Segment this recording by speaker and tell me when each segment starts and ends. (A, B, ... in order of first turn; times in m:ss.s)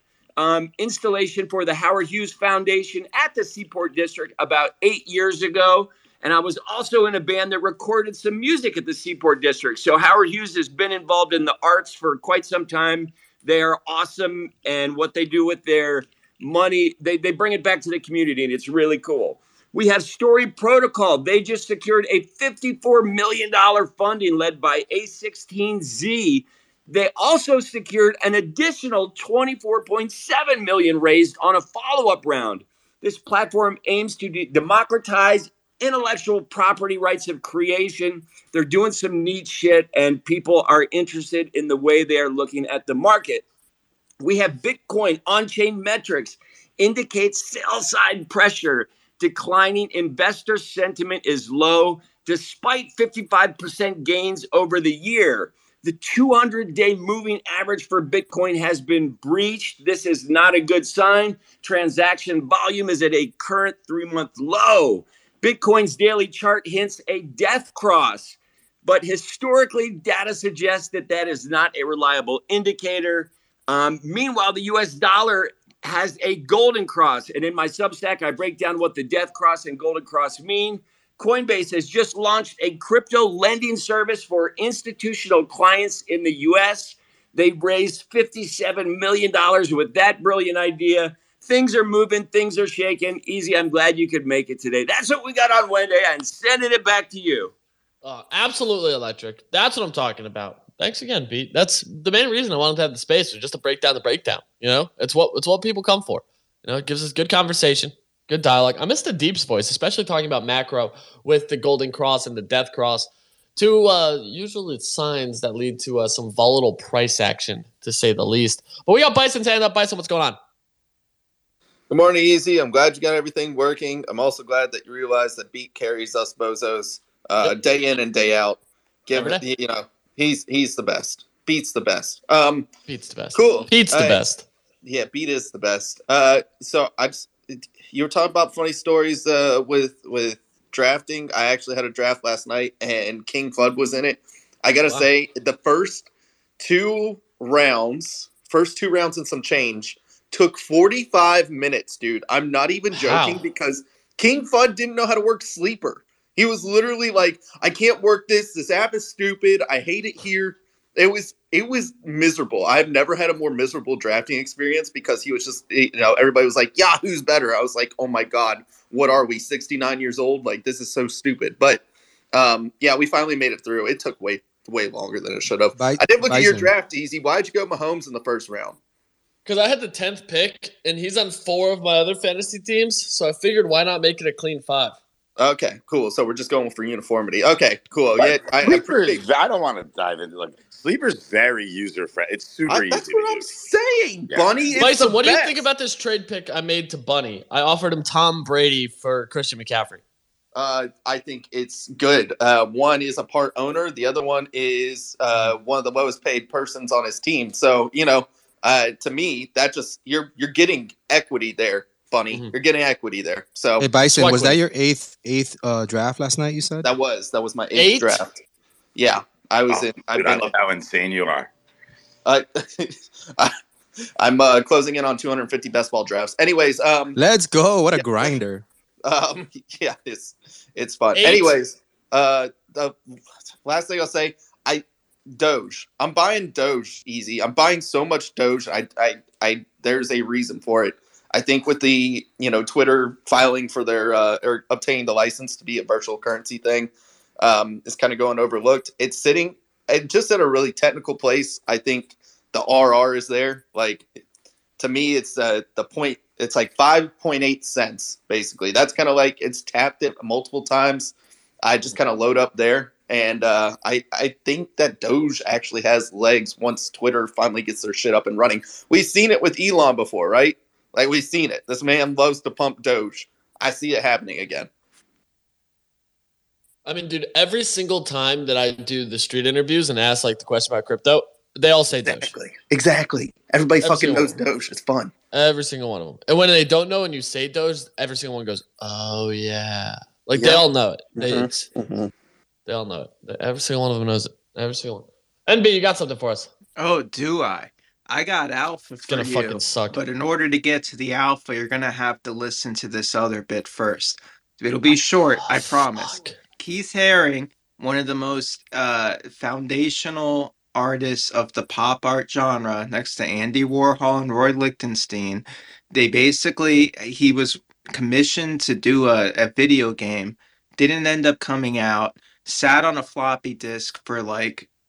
0:00.4-0:43.4 A
0:44.2-1:37.5 A
1:38.0-2:00.4 B
2:01.9-2:12.7 C
2:09.1-2:09.4 B
2:12.9-2:14.4 B
2:13.3-2:14.2 C
2:14.8-2:26.1 C
2:26.6-2:58.8 C
2:32.9-2:33.4 B
2:55.7-2:56.7 D
2:59.4-3:05.0 B
3:05.4-3:09.2 C
3:08.2-3:13.5 E
3:12.7-3:15.6 C
3:14.8-3:20.0 B
3:20.5-3:33.9 C
3:33.8-3:36.9 D
3:34.1-3:34.6 B
3:36.8-3:38.4 C
3:37.7-3:38.2 B
3:38.9-3:40.5 C
3:39.7-3:41.5 E
3:42.2-3:43.5 C
3:44.2-3:47.2 C
3:47.2-3:48.6 D
3:49.0-3:53.0 C
3:51.1-3:51.5 B
3:53.6-4:14.1 C
4:14.8-4:34.7 C
4:36.8-4:42.3 B
4:42.0-4:45.1 C
4:43.8-4:44.4 B
4:45.3-4:51.7 B
4:50.4-4:50.6 C
4:51.2-4:52.1 C
4:52.6-4:56.5 B
4:56.8-5:24.7 F
4:59.1-5:00.0 B
5:04.9-5:06.4 B